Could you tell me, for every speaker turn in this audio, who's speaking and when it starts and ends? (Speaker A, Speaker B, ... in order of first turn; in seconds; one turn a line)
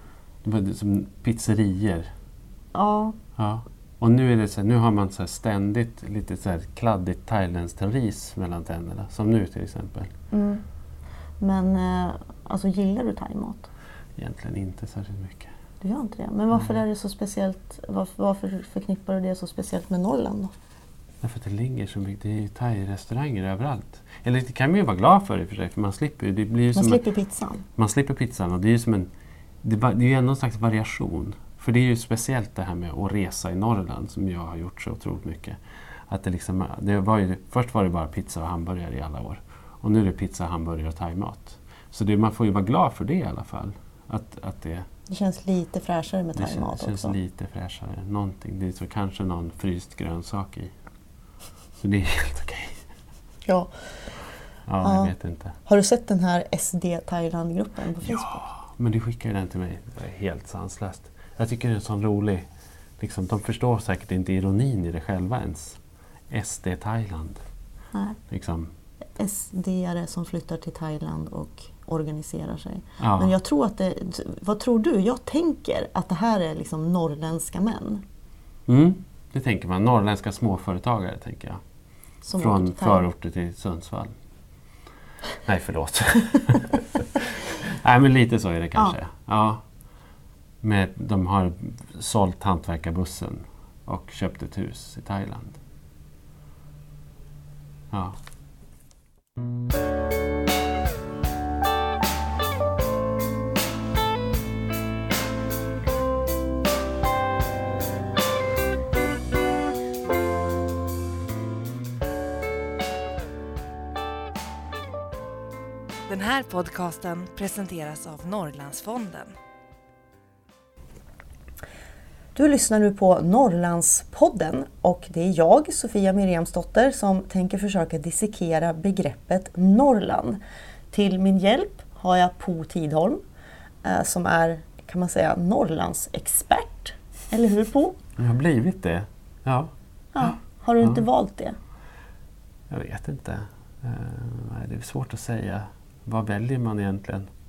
Speaker A: 0.4-2.1
Speaker B: 2.7-3.1
Speaker A: 3.4-10.1
Speaker B: 10.3-10.6
Speaker B: 11.4-13.7
Speaker A: 14.2-15.5
Speaker B: 15.8-20.5
Speaker A: 21.2-27.0
Speaker B: 26.7-27.6
Speaker A: 27.8-29.1
Speaker A: 29.6-35.6
Speaker A: 36.1-44.9
Speaker B: 45.1-47.1
Speaker A: 46.4-50.7
Speaker A: 51.8-52.8
Speaker B: 53.5-53.8
Speaker A: 54.7-55.5
Speaker B: 54.8-55.1
Speaker B: 55.6-58.4
Speaker A: 58.0-62.5
Speaker A: 63.0-65.8
Speaker A: 66.3-67.4
Speaker B: 67.9-68.2
Speaker A: 68.3-68.7
Speaker B: 69.2-78.0
Speaker A: 73.0-73.3
Speaker A: 78.7-81.6
Speaker B: 82.2-83.0
Speaker A: 82.4-84.1
Speaker A: 85.4-89.6
Speaker A: 90.6-95.6
Speaker A: 97.9-98.2
Speaker C: 116.1-119.3
Speaker B: 122.3-130.4
Speaker B: 130.9-133.2
Speaker B: 133.8-138.0
Speaker A: 138.2-141.0
Speaker B: 140.1-141.6
Speaker A: 142.7-147.3